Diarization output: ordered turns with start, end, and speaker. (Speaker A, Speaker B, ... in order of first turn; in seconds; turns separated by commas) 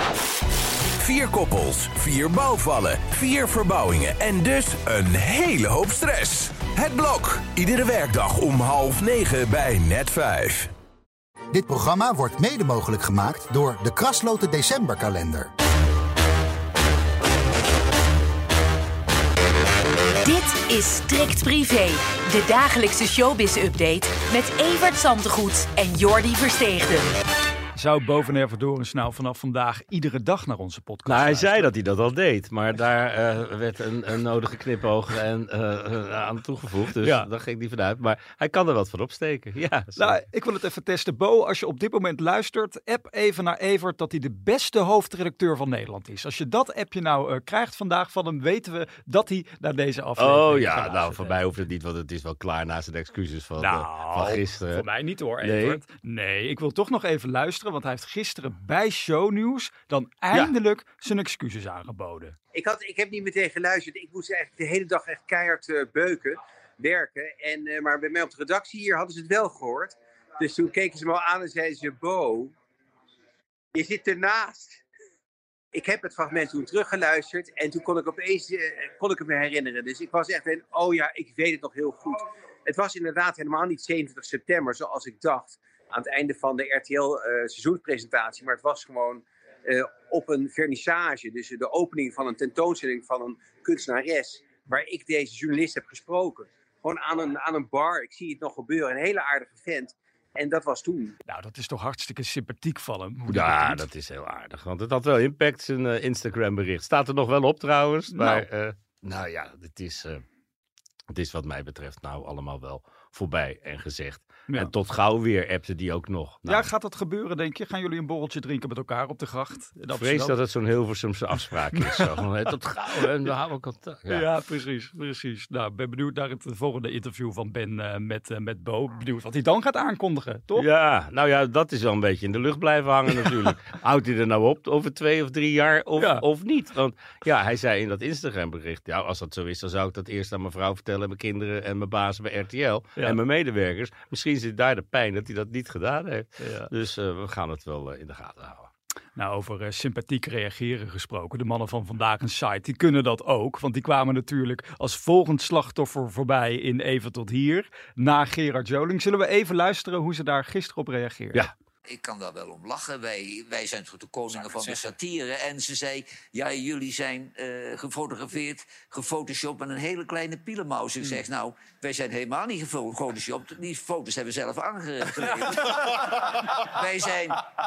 Speaker A: 1.0-10.7, Speaker B: 11.5-15.5, Speaker C: 20.2-27.1, Speaker D: 27.7-31.7, Speaker E: 31.1-40.2, Speaker D: 37.0-37.3, Speaker D: 40.0-51.4, Speaker E: 50.2-54.8, Speaker D: 53.6-62.4, Speaker E: 55.4-55.8, Speaker F: 62.5-72.5, Speaker F: 73.7-74.8, Speaker F: 75.7-101.1, Speaker D: 101.2-103.8, Speaker E: 103.3-110.2, Speaker D: 108.1-108.5, Speaker E: 111.1-116.7, Speaker D: 116.5-120.4, Speaker E: 119.9-124.3, Speaker D: 121.8-122.0, Speaker D: 124.1-130.7, Speaker E: 130.5-148.7, Speaker D: 136.0-136.2, Speaker D: 146.4-146.7, Speaker D: 149.2-161.5, Speaker G: 161.9-175.8, Speaker G: 176.7-177.4